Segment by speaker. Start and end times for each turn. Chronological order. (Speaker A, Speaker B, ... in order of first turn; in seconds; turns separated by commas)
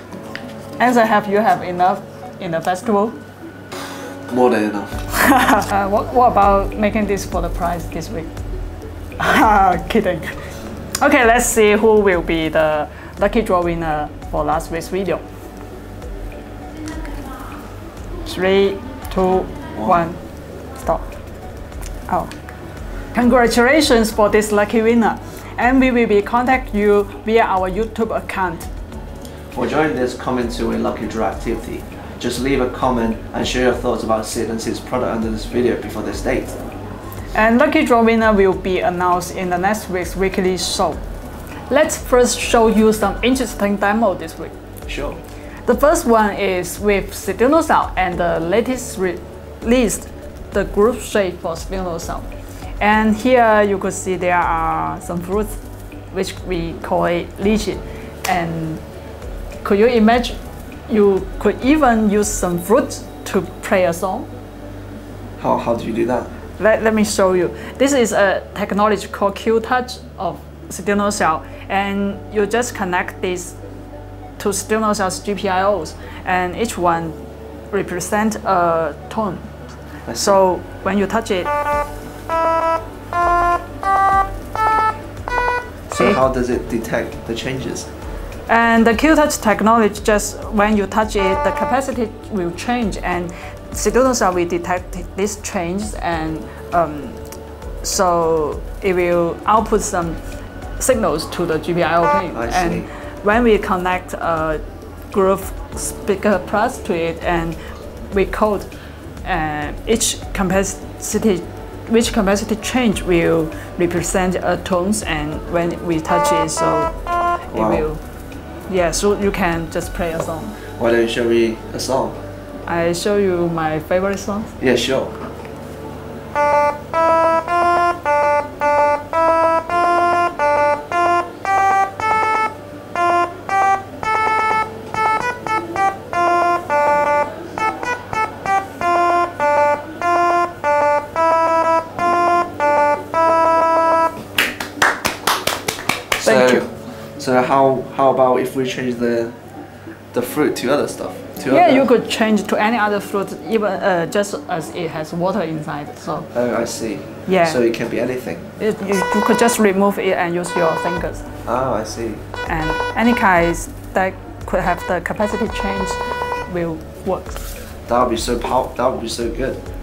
Speaker A: 0.8-3.2, Speaker B: 4.3-5.1, Speaker A: 5.2-8.3, Speaker A: 9.2-10.3, Speaker A: 11.0-15.2, Speaker A: 18.2-20.2, Speaker B: 19.8-20.1, Speaker A: 20.8-21.1, Speaker A: 23.1-28.7, Speaker B: 29.5-36.6, Speaker A: 37.3-41.0, Speaker A: 41.7-44.5, Speaker B: 44.9-45.2, Speaker A: 45.6-52.3, Speaker A: 52.8-55.6, Speaker A: 56.1-58.8, Speaker A: 59.6-64.3, Speaker B: 65.4-66.3, Speaker A: 66.6-73.5, Speaker A: 74.4-77.2, Speaker A: 77.7-79.5, Speaker A: 80.1-81.5, Speaker A: 85.9-86.2, Speaker B: 85.9-87.9, Speaker A: 88.5-97.2, Speaker A: 97.8-100.2, Speaker A: 100.8-104.6, Speaker B: 102.3-102.9, Speaker A: 105.1-107.6, Speaker A: 108.1-108.7, Speaker A: 109.2-116.9, Speaker A: 117.5-118.0, Speaker B: 117.5-117.8, Speaker A: 118.7-120.6, Speaker B: 120.8-122.2, Speaker A: 122.7-124.5, Speaker B: 124.6-125.1, Speaker B: 146.2-149.3, Speaker A: 146.2-146.6, Speaker B: 150.1-151.9, Speaker A: 151.5-156.3, Speaker B: 156.3-158.4, Speaker A: 157.3-157.6, Speaker A: 158.6-161.2, Speaker B: 161.4-162.2, Speaker A: 162.4-167.4, Speaker B: 167.9-169.6